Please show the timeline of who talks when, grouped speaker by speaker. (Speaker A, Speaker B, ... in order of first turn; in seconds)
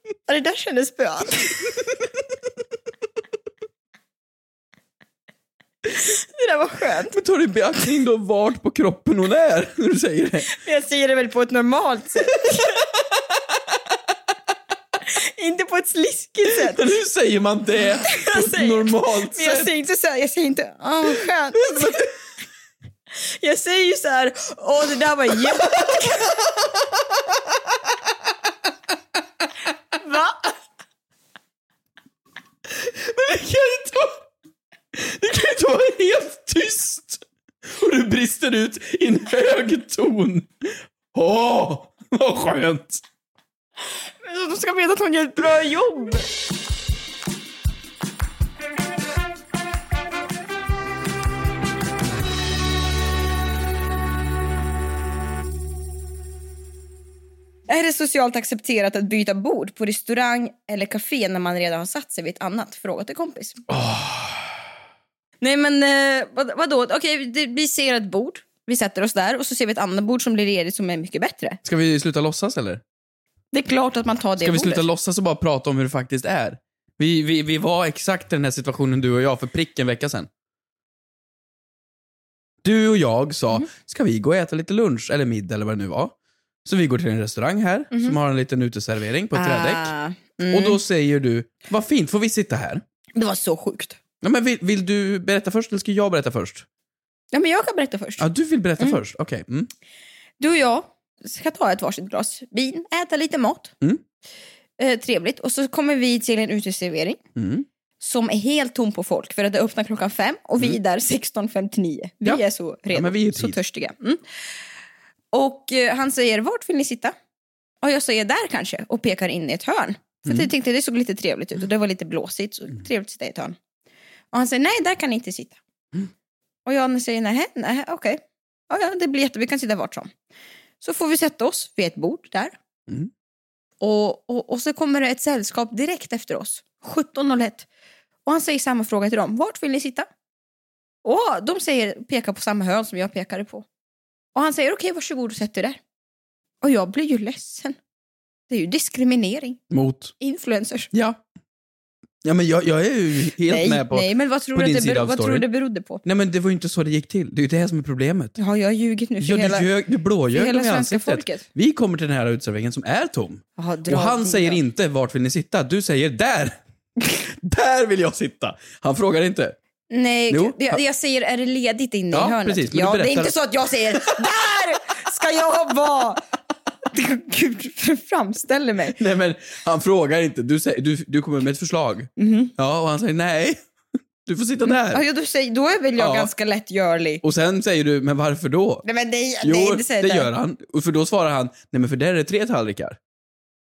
Speaker A: 0.3-1.6, 6.0-7.2, 10.5-12.8, 15.1-16.9, 18.0-22.1, 23.1-26.4, 30.0-30.5, 44.2-46.2, 57.7-63.6, 65.4-71.6, 73.5-74.9, 89.3-90.8, 93.1-94.0, 97.3-98.2, 100.4-103.7, 104.8-107.2, 108.0-114.2, 115.3-117.1, 117.8-123.6, 124.3-125.6, 126.7-130.1, 130.8-132.6, 133.8-137.7, 138.2-140.1, 141.0-143.7, 144.3-145.8, 146.6-147.8, 148.5-149.6, 150.2-150.9, 153.4-156.0, 158.4-159.7, 160.3-161.4, 163.6-164.6, 169.9-176.2, 176.9-179.0, 182.2-182.5, 184.7-187.2, 188.8-190.3
Speaker B: 7.1-10.5, 16.5-19.7, 21.5-22.1, 25.5-25.9, 32.7-34.2, 34.9-43.0, 63.7-64.4, 71.6-72.8, 74.4-80.3, 82.6-89.9, 90.5-92.8, 94.2-96.7, 98.2-99.7, 107.3-107.7, 112.2-113.6, 149.7-150.1, 150.9-151.2, 152.2-155.5, 156.0-158.4, 159.2-169.6, 170.3-170.8, 172.1-173.3, 178.9-183.6, 184.2-185.0, 186.0-186.3, 187.2-188.8, 189.4-193.0